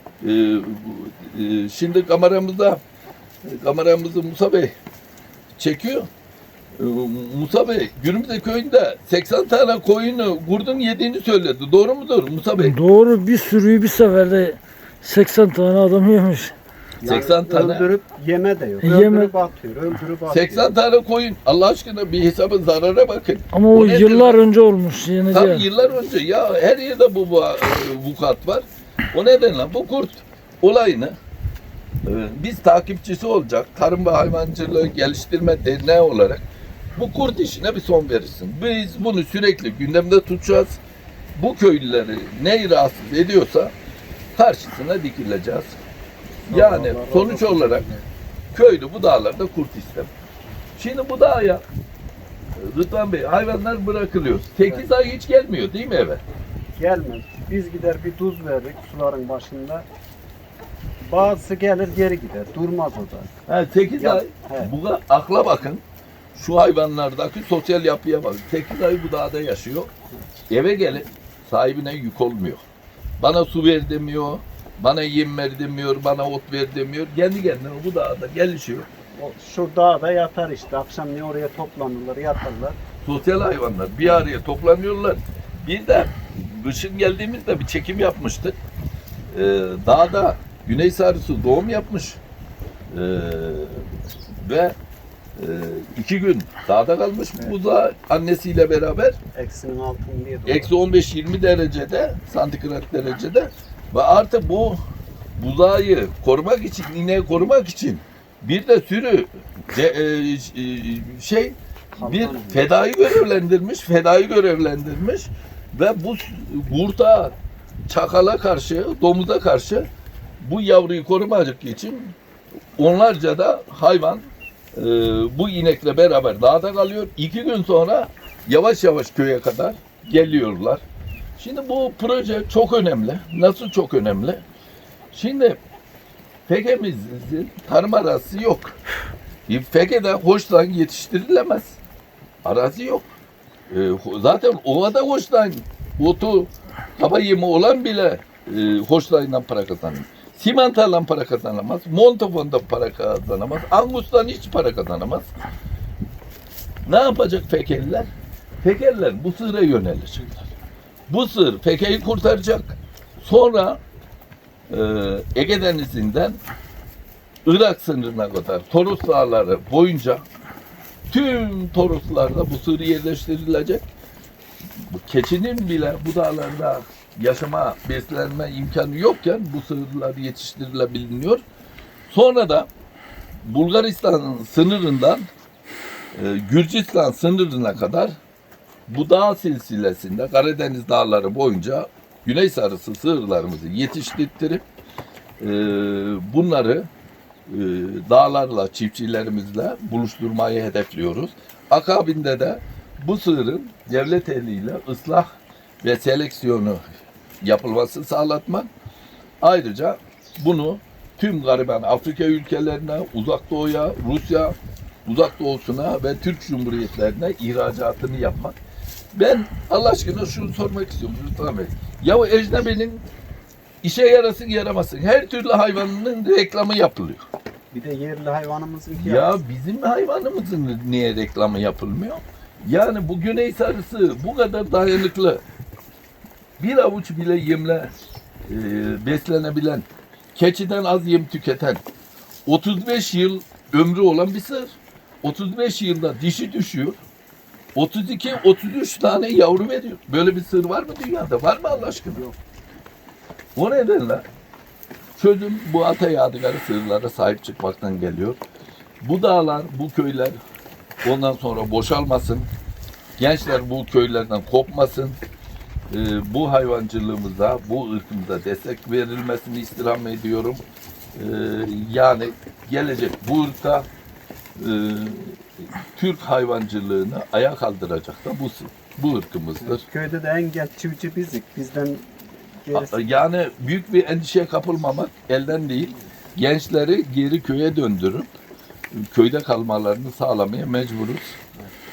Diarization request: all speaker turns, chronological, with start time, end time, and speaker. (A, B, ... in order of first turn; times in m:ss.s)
0:00.2-0:02.8 A
0:03.4-0:04.7 A
0:05.6-0:06.1 A
0:06.8-0:12.8 A
0:12.6-0:16.5 B
0:17.0-0:20.7 C
0:17.0-0:17.9 A
0:18.8-0:19.3 B
0:20.3-0:24.4 A
0:23.5-0:25.6 B
0:25.3-0:31.2 A
0:32.0-0:40.8 A
0:41.4-0:43.7 A
0:44.4-0:45.8 A
0:46.4-0:47.8 A
0:46.5-0:48.1 C
0:48.5-0:50.1 A
0:50.8-0:51.6 A
0:52.6-0:56.2 A
0:56.8-0:59.9 C
1:01.0-1:03.3 C
1:03.5-1:05.8 A
1:04.0-1:04.7 C
1:06.3-1:09.9 A
1:10.5-1:12.6 A
1:13.2-1:18.9 A
1:19.2-1:22.8 C
1:23.0-1:28.6 A
1:29.3-1:32.2 A
1:32.9-1:33.8 A
1:34.4-1:34.8 A
1:35.4-1:39.2 A
1:39.3-1:40.7 C
1:40.4-1:44.8 A
1:45.4-1:57.3 A
1:51.9-1:52.6 C
1:57.9-1:59.9 A
2:00.4-2:02.1 A
2:02.8-2:10.8 A
2:11.4-2:14.4 A
2:15.1-2:15.6 A
2:16.5-2:18.8 A
2:19.5-2:21.8 A
2:22.4-2:23.1 A
2:23.7-2:35.3 A
2:36.8-2:38.1 A
2:38.6-2:40.5 A
2:41.1-2:43.8 A
2:44.7-2:46.4 A
2:47.4-2:50.2 A
2:51.1-2:53.8 A
2:54.8-3:01.4 A
3:02.1-3:02.7 A
3:03.4-3:05.3 A
3:06.1-3:08.2 A
3:08.9-3:14.6 A
3:15.4-3:16.9 A
3:17.5-3:26.8 A
3:27.4-3:28.7 A
3:29.4-3:38.5 A
3:39.1-3:43.1 A
3:43.8-3:47.2 A
3:47.7-3:49.3 C
3:49.0-3:55.4 A
3:56.6-3:57.9 A
3:58.5-4:01.8 A
4:02.4-4:07.0 A
4:07.7-4:12.2 A
4:11.6-4:12.4 C
4:13.6-4:14.2 A
4:15.2-4:18.4 A
4:19.0-4:20.4 A
4:21.0-4:22.5 A
4:23.2-4:25.2 A
4:25.9-4:30.6 A
4:31.1-4:33.9 A
4:34.6-4:39.8 A
4:39.6-4:43.0 C
4:42.7-4:48.3 A
4:48.9-4:51.4 A